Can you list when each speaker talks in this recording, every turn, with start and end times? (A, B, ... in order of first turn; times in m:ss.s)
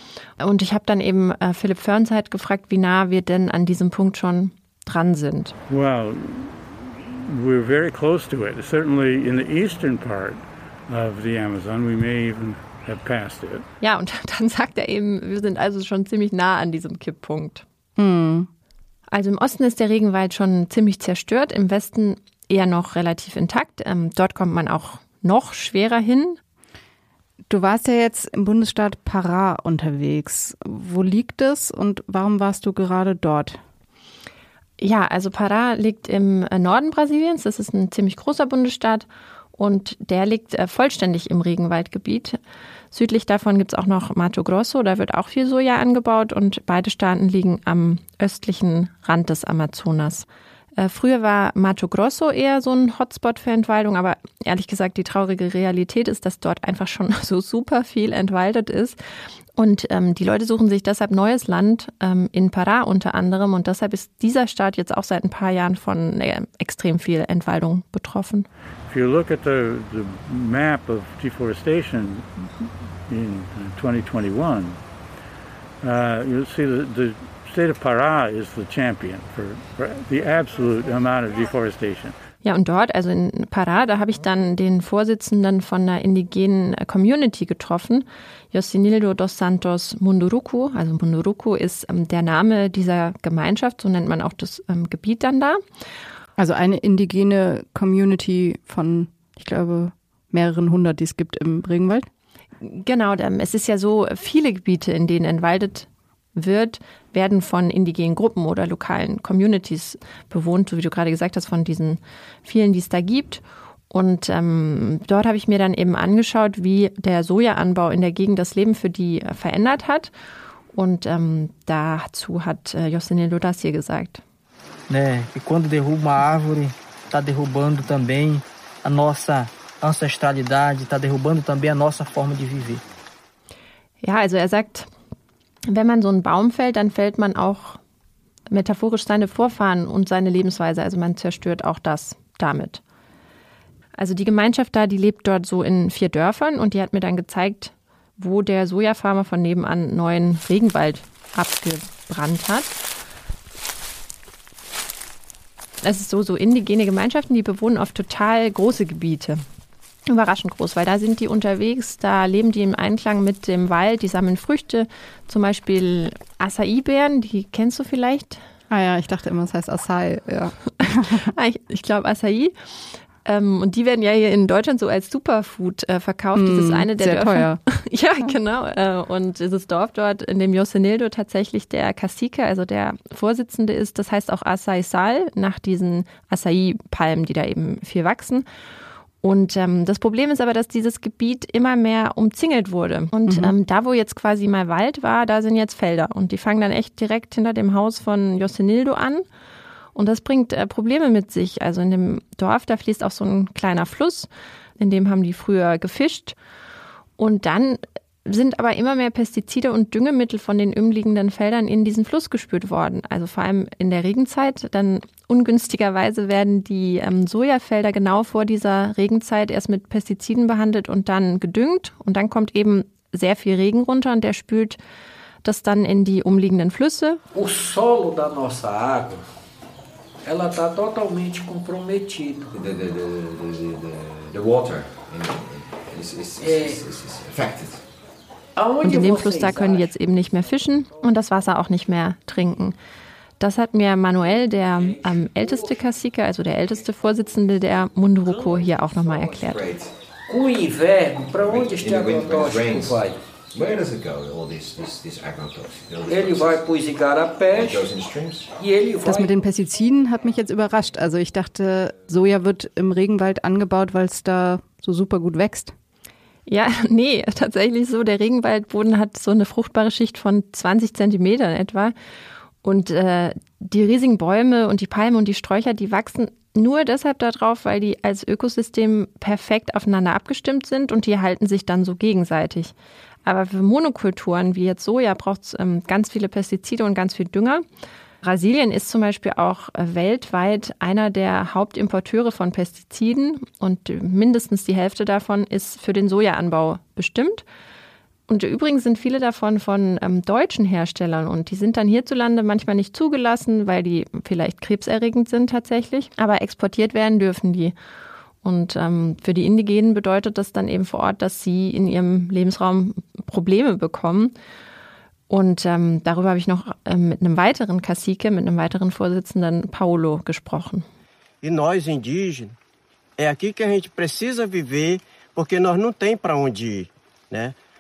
0:00.4-0:05.6 A
0:05.7-0:06.6 B
0:07.2-0:13.7 B
0:13.8-0:17.6 A
0:18.0-0:18.5 C
0:19.1-0:26.4 A
0:27.5-0:33.6 C
0:34.8-0:42.4 A
0:42.9-0:50.3 A
0:50.8-0:59.0 A
0:59.6-1:08.5 A
1:08.9-1:14.8 B
1:15.8-1:22.2 B
1:22.4-1:35.6 A
1:36.4-1:42.1 C
1:42.6-2:00.1 A
2:00.7-2:04.2 A
2:04.9-2:12.8 D
2:14.0-2:14.9 A
2:15.7-2:17.8 A
2:18.5-2:22.8 A
2:24.0-2:32.8 A
2:35.8-2:39.4 A
2:40.1-2:48.4 A
2:48.7-2:51.3 C
2:51.3-2:52.6 A
2:53.2-3:08.5 A
2:56.4-2:57.6 C
3:09.2-3:19.2 A
3:13.3-3:13.5 C
3:20.0-3:24.3 A
3:24.8-3:26.4 A
3:27.2-3:44.8 A
3:45.4-3:47.2 A
3:47.3-3:49.2 E
3:50.2-3:52.5 E
3:52.5-3:57.8 F
3:56.4-3:56.8 E
3:58.6-3:59.9 E
3:58.8-4:02.8 A
4:03.4-4:09.6 A
4:05.0-4:05.7 E
4:09.2-4:09.9 F
4:10.3-4:13.2 E
4:11.3-4:16.7 F
4:16.1-4:17.9 E
4:17.5-4:18.5 F
4:18.6-4:19.3 E
4:19.0-4:25.7 C
4:26.5-4:31.9 A
4:32.6-4:42.7 A
4:43.2-4:47.6 A
4:48.2-4:57.4 A
4:58.3-5:07.8 A
5:08.4-5:14.3 A
5:15.3-5:20.9 A
5:21.4-5:22.6 G
5:23.2-5:27.6 G